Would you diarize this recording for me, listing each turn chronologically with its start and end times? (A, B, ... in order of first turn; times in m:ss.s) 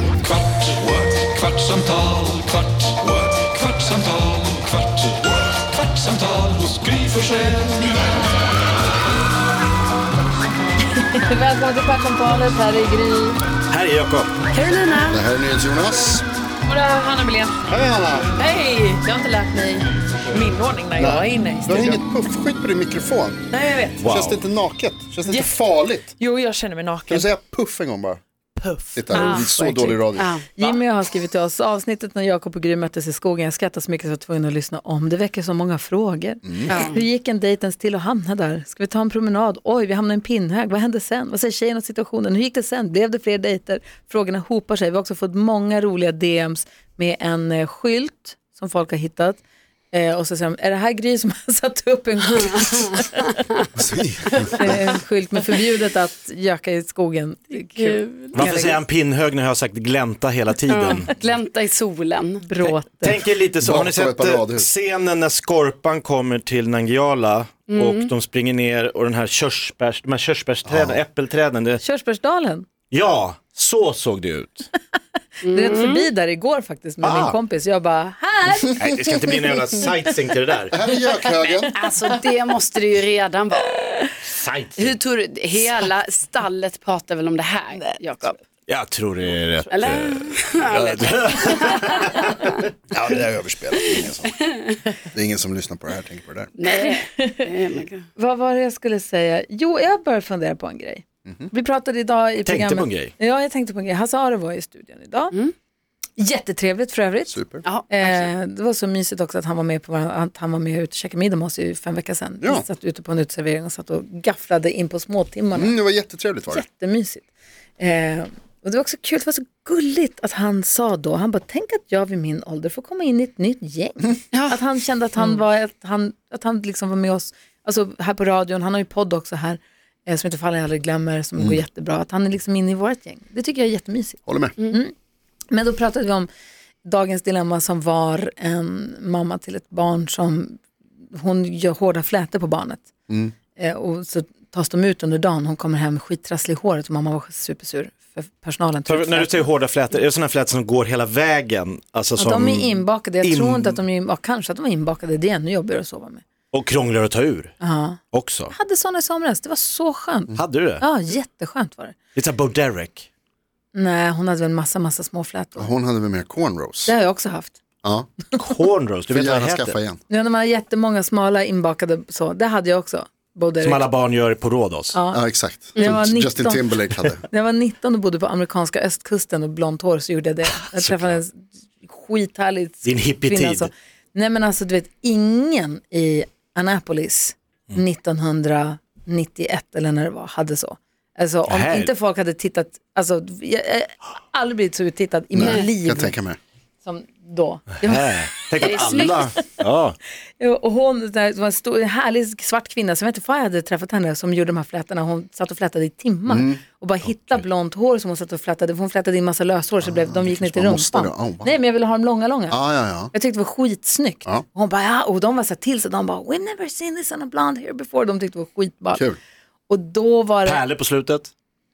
0:00.2-0:07.9 A
0:10.8-0:13.4 B
0:13.7-0:14.4 C
0:14.5-0:15.2 D
0:15.1-0:16.2 E
0:16.6-0:17.6 F
0:17.7-0:18.3 E
0:18.4-0:22.0 F
0:21.0-0:23.4 E
0:23.5-0:24.0 F
0:24.0-0:24.4 C
0:24.0-0:26.1 E
0:25.2-0:25.6 F
0:26.2-0:27.3 F
0:27.1-0:28.2 E
0:28.6-0:30.0 F
0:28.9-0:30.3 E
0:29.1-0:29.4 D
0:30.1-0:30.5 D
0:30.6-0:49.4 B
0:36.4-0:36.9 E
0:36.7-0:37.0 D
0:49.9-0:53.3 B
0:53.8-0:54.9 E
0:54.6-0:58.8 B
0:57.5-0:58.5 D
0:58.3-1:01.2 C
1:00.7-1:02.4 D
1:02.4-1:03.2 B
1:02.6-1:11.8 C
1:03.6-1:04.7 E
1:07.7-1:08.1 D
1:10.6-1:11.0 E
1:11.8-1:12.6 B
1:12.9-1:14.7 C
1:15.4-1:16.0 D
1:15.5-1:19.9 B
1:17.0-1:17.4 C
1:18.8-1:20.8 C
1:20.7-1:21.7 E
1:21.3-1:24.1 D
1:24.2-1:25.0 C
1:24.8-1:28.4 D
1:28.7-1:32.5 C
1:29.6-1:32.2 D
1:32.9-1:34.4 E
1:35.0-1:36.5 E
1:36.6-1:38.0 D
1:36.7-1:37.5 B
1:38.2-1:45.3 B
1:42.4-1:43.1 C
1:46.2-1:55.8 B
1:47.3-1:47.6 E
1:47.6-1:48.1 D
1:55.5-1:56.6 E
1:56.5-1:57.3 B
1:57.8-2:14.9 B
2:04.3-2:04.6 D
2:14.2-2:14.5 E
2:15.5-2:16.3 B
2:16.8-2:20.6 B
2:21.1-2:22.9 B
2:23.1-2:23.3 E
2:23.6-2:29.5 B
2:28.9-2:33.8 C
2:32.2-2:36.2 B
2:36.5-2:37.6 C
2:37.6-2:42.0 B
2:38.1-2:38.5 C
2:40.4-2:40.8 C
2:42.1-2:43.1 C
2:43.7-2:45.7 B
2:45.6-2:46.9 E
2:46.8-2:47.6 B
2:47.8-2:48.1 E
2:48.3-2:49.8 C
2:49.1-2:50.0 E
2:50.1-2:53.8 B
2:53.6-2:55.0 C
2:54.9-2:55.2 B
2:55.1-2:57.2 E
2:55.7-2:56.7 B
2:57.2-3:16.1 B
3:00.7-3:01.1 C
3:02.8-3:03.7 C
3:11.5-3:11.9 C
3:15.3-3:16.4 E
3:16.8-3:19.4 B
3:17.8-3:20.0 C
3:18.6-3:19.3 D
3:20.4-3:32.6 B
3:26.3-3:26.6 E
3:29.8-3:31.6 E
3:32.5-3:33.1 E
3:33.1-3:39.0 B
3:38.9-3:39.2 E
3:39.7-3:40.6 B
3:40.4-3:41.3 C